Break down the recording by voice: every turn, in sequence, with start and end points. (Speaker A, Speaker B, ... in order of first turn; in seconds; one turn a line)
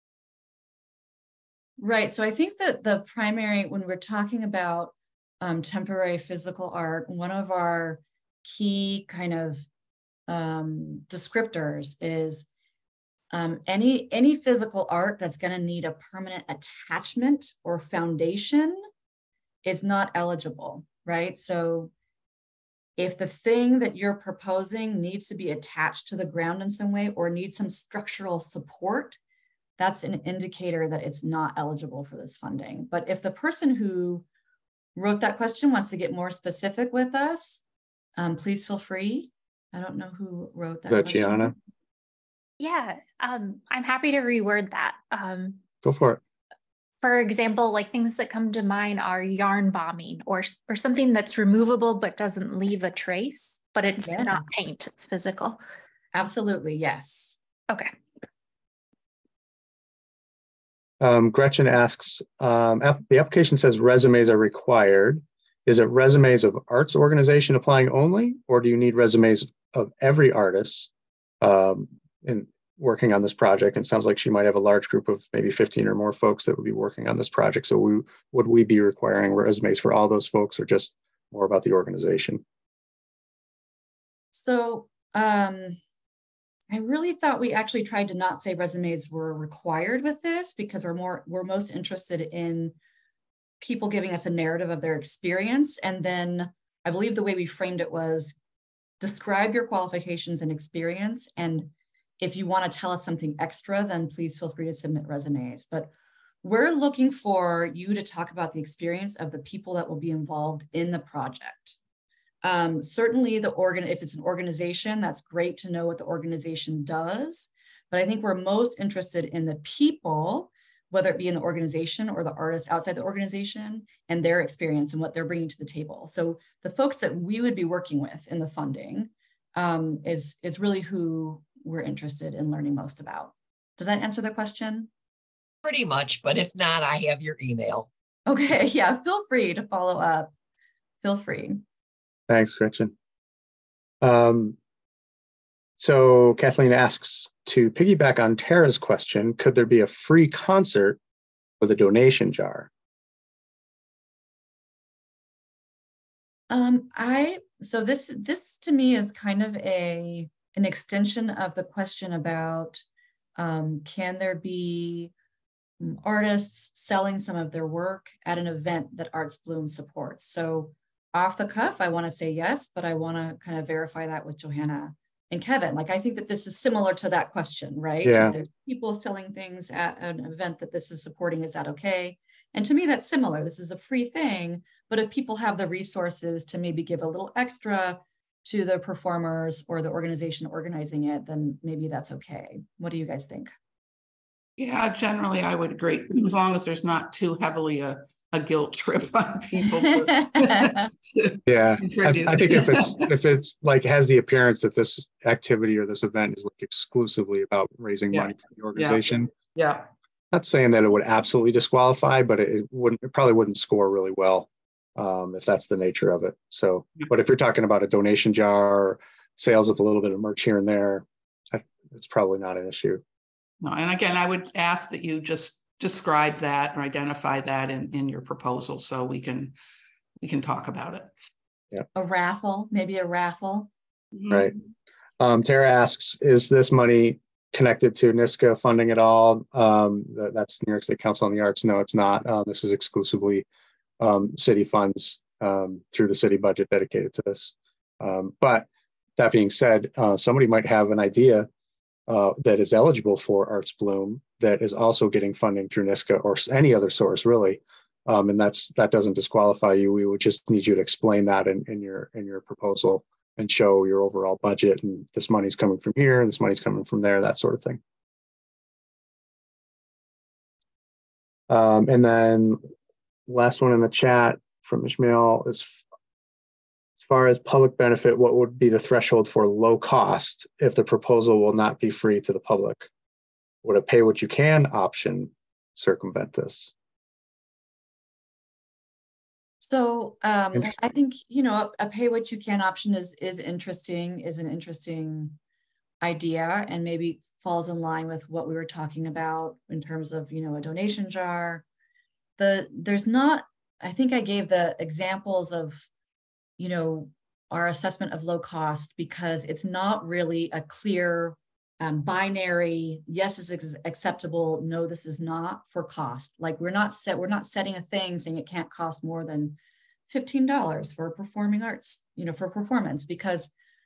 Speaker A: 1.8-9.7
Speaker A: 10.3-12.5
Speaker A: 13.3-18.8
Speaker A: 19.6-21.9
Speaker A: 23.0-29.2
Speaker A: 29.8-34.2
Speaker A: 35.0-37.6
Speaker A: 38.2-41.5
Speaker B: 40.9-41.5
Speaker C: 42.6-45.6
Speaker B: 45.8-46.2
Speaker C: 47.0-55.6
Speaker A: 54.0-54.4
Speaker A: 56.1-57.4
Speaker B: 61.0-82.4
Speaker A: 84.3-85.8
Speaker A: 86.7-92.8
Speaker A: 93.6-98.4
Speaker A: 99.0-105.9
Speaker A: 106.4-111.8
Speaker A: 112.4-134.9
Speaker D: 135.6-137.9
Speaker A: 138.3-140.3
Speaker A: 141.0-141.6
Speaker B: 142.3-142.9
Speaker B: 144.0-144.6
Speaker B: 145.8-151.0
Speaker B: 151.6-152.7
Speaker A: 156.5-162.8
Speaker A: 163.4-165.1
Speaker A: 165.8-193.5
Speaker B: 178.0-178.4
Speaker E: 194.6-203.1
Speaker B: 201.5-209.3
Speaker E: 208.1-209.0
Speaker E: 209.6-209.9
Speaker B: 210.3-223.0
Speaker E: 223.6-229.6
Speaker E: 230.2-231.1
Speaker A: 231.9-233.7
Speaker E: 234.2-234.5
Speaker B: 235.2-243.4
Speaker B: 244.0-248.7
Speaker B: 249.2-251.5
Speaker B: 252.1-267.8
Speaker B: 271.5-272.6
Speaker B: 273.3-275.8
Speaker B: 277.0-282.9
Speaker B: 283.6-286.7
Speaker A: 289.6-295.4
Speaker A: 296.0-301.6
Speaker A: 302.4-305.9
Speaker A: 306.6-323.5